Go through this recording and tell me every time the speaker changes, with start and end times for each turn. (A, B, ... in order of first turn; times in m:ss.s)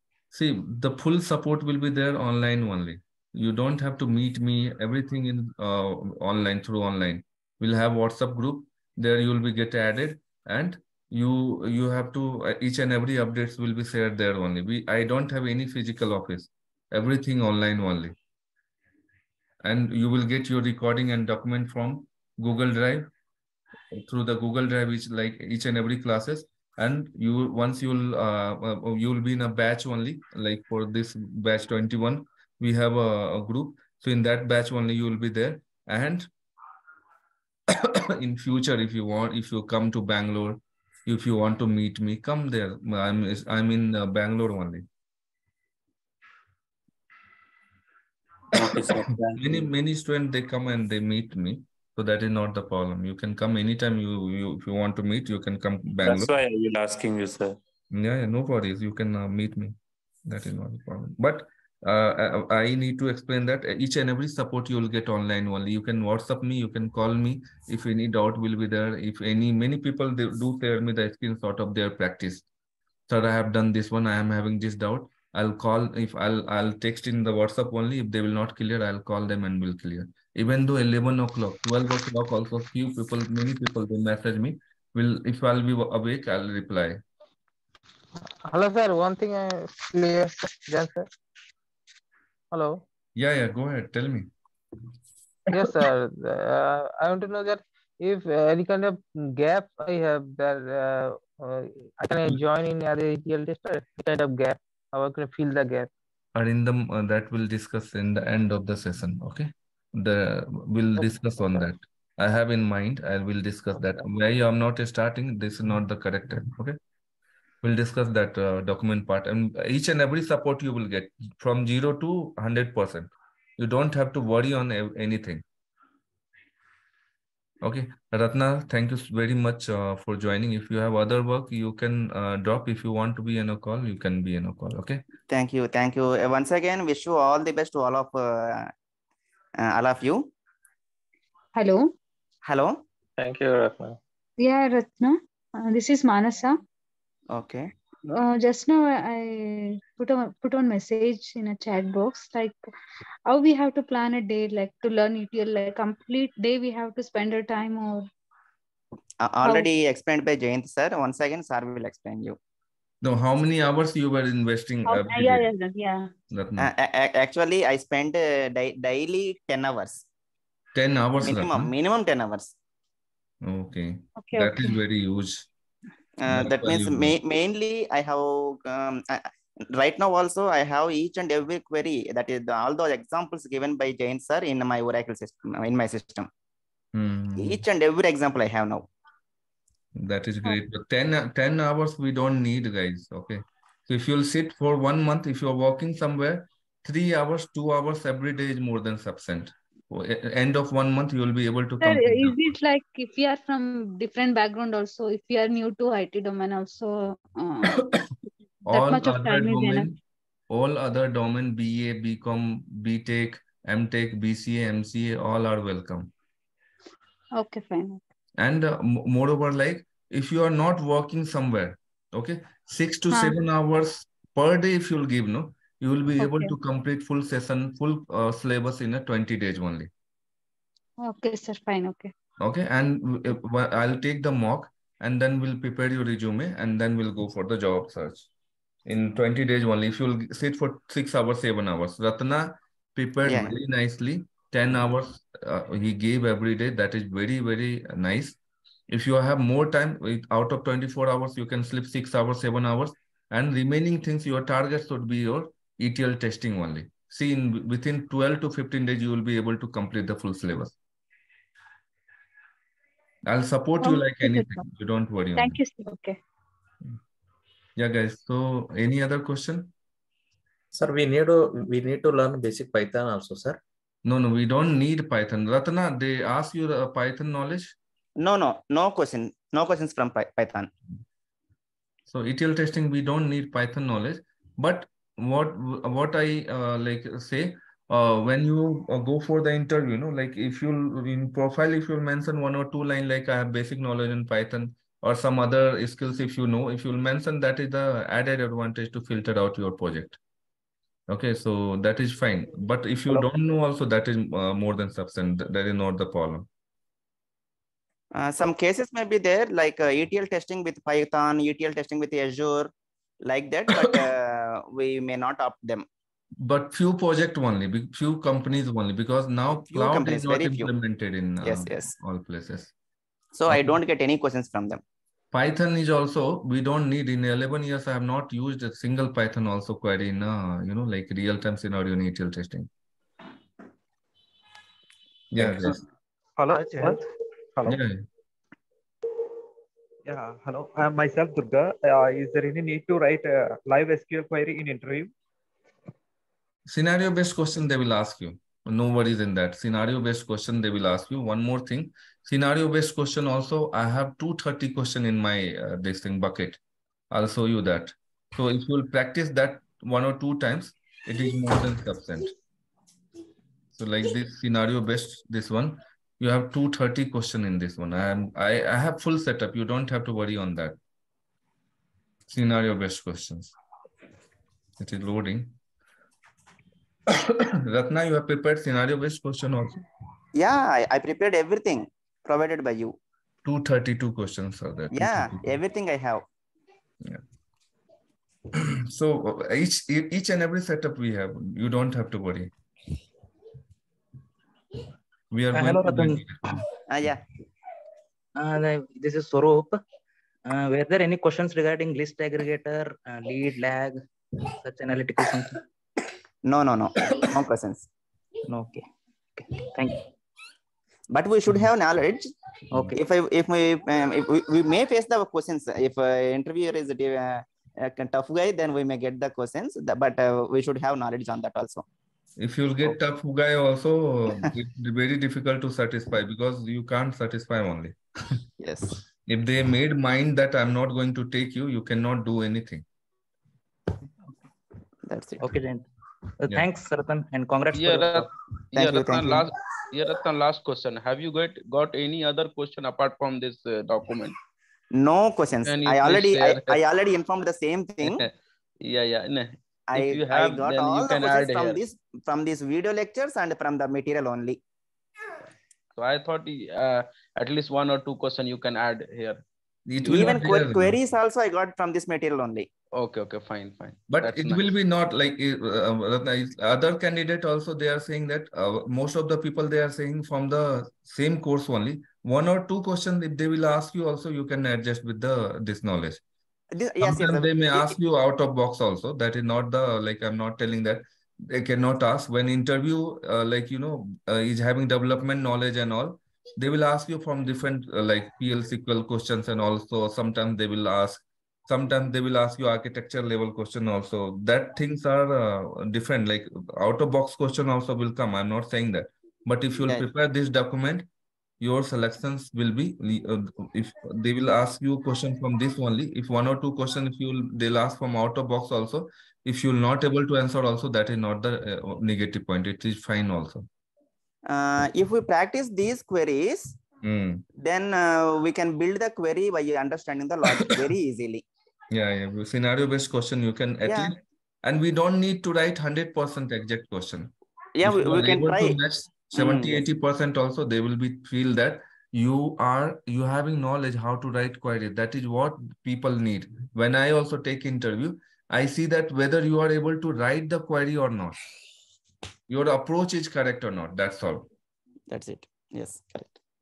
0:00.3-0:18.2 A
0:19.6-0:23.1 A
0:23.9-0:36.3 A
0:37.7-0:44.8 A
0:48.5-0:49.6 B
0:49.4-0:56.3 A
0:56.0-0:57.6 B
0:57.9-0:59.8 A
1:00.3-1:12.4 A
1:13.1-1:27.0 A
1:28.4-1:31.1 C
1:32.5-1:32.8 C
1:33.2-1:34.3 A
1:35.5-1:45.9 C
1:46.4-1:56.8 A
1:57.6-2:05.4 A
2:07.6-2:15.0 A
2:15.3-2:18.7 D
2:19.6-2:20.3 D
2:21.6-2:21.9 E
2:22.4-2:22.8 D
2:24.4-2:26.6 E
2:27.3-2:27.7 D
2:28.1-2:32.6 E
2:33.3-2:38.1 E
2:39.2-2:42.4 D
2:43.0-2:45.5 A
2:44.9-2:46.1 E
2:46.3-2:46.7 A
2:46.6-2:50.0 D
2:50.7-2:51.7 A
2:51.2-2:52.5 D
2:53.4-2:55.5 A
2:54.2-2:54.7 E
2:56.2-3:06.3 D
2:56.3-2:57.2 A
3:06.9-3:07.6 A
3:07.4-3:08.9 D
3:10.0-3:22.6 A
3:21.8-3:27.8 E
3:28.7-3:30.0 A
3:28.7-3:29.9 E
3:30.5-3:36.1 A
3:37.4-3:38.0 E
3:38.4-3:49.9 A
3:43.1-3:43.4 E
3:46.2-3:46.5 E
3:51.0-3:52.1 E
3:52.4-3:58.3 A
3:58.9-4:08.4 A
4:03.3-4:03.5 D
4:08.9-4:20.8 A
4:23.3-4:25.6 A
4:23.8-4:24.6 E
4:25.4-4:26.2 E
4:27.8-4:29.7 A
4:30.7-4:33.6 F
4:34.0-4:37.8 A
4:38.2-4:40.7 D
4:42.1-5:00.2 A
5:01.1-5:06.5 A
5:08.1-5:12.7 D
5:13.2-5:15.8 D
5:16.4-5:22.7 A
5:19.7-5:20.7 D
5:21.4-5:21.9 D
5:23.4-5:24.8 D
5:25.3-5:32.7 A
5:35.3-5:35.8 A
5:36.4-5:37.0 G
5:37.7-5:38.1 A
5:40.1-5:45.1 G
5:46.7-5:56.6 A
5:57.1-6:02.3 A
6:03.7-6:10.8 A
6:12.3-6:13.5 A
6:14.8-6:15.6 A
6:17.1-6:19.8 A
6:20.4-6:23.0 D
6:23.4-6:25.4 A
6:24.9-6:26.2 D
6:28.5-6:32.5 A
6:35.3-6:36.4 A
6:35.5-6:36.2 H
6:36.9-6:37.2 D
6:38.4-6:39.8 H
6:40.5-6:45.6 H
6:46.5-6:47.9 D
6:48.5-6:48.8 H
6:49.4-6:50.0 H
6:51.1-6:52.3 D
6:52.9-7:01.8 D
7:02.4-7:08.4 A
7:08.6-7:09.0 D
7:09.3-7:12.8 A
7:15.1-7:15.4 D
7:15.4-7:15.9 H
7:16.4-7:18.3 H
7:17.7-7:24.4 I
7:18.8-7:19.5 D
7:24.9-7:28.2 D
7:25.6-7:26.8 I
7:28.0-7:31.8 I
7:29.9-7:34.6 D
7:36.0-7:39.4 I
7:39.9-7:41.0 A
7:40.0-7:40.4 I
7:40.1-7:42.7 D
7:42.9-7:44.7 I
7:44.1-7:56.2 A
7:56.7-7:58.0 D
7:57.0-8:21.1 A
8:21.6-8:33.7 A
8:34.5-8:36.8 D
8:37.0-8:37.4 A
8:37.6-8:41.4 D
8:41.9-8:47.3 A
8:43.9-8:44.1 D
8:47.8-8:48.8 D
8:47.8-9:01.4 A
8:49.4-8:49.8 D
9:02.5-9:04.5 A
9:05.1-9:06.4 D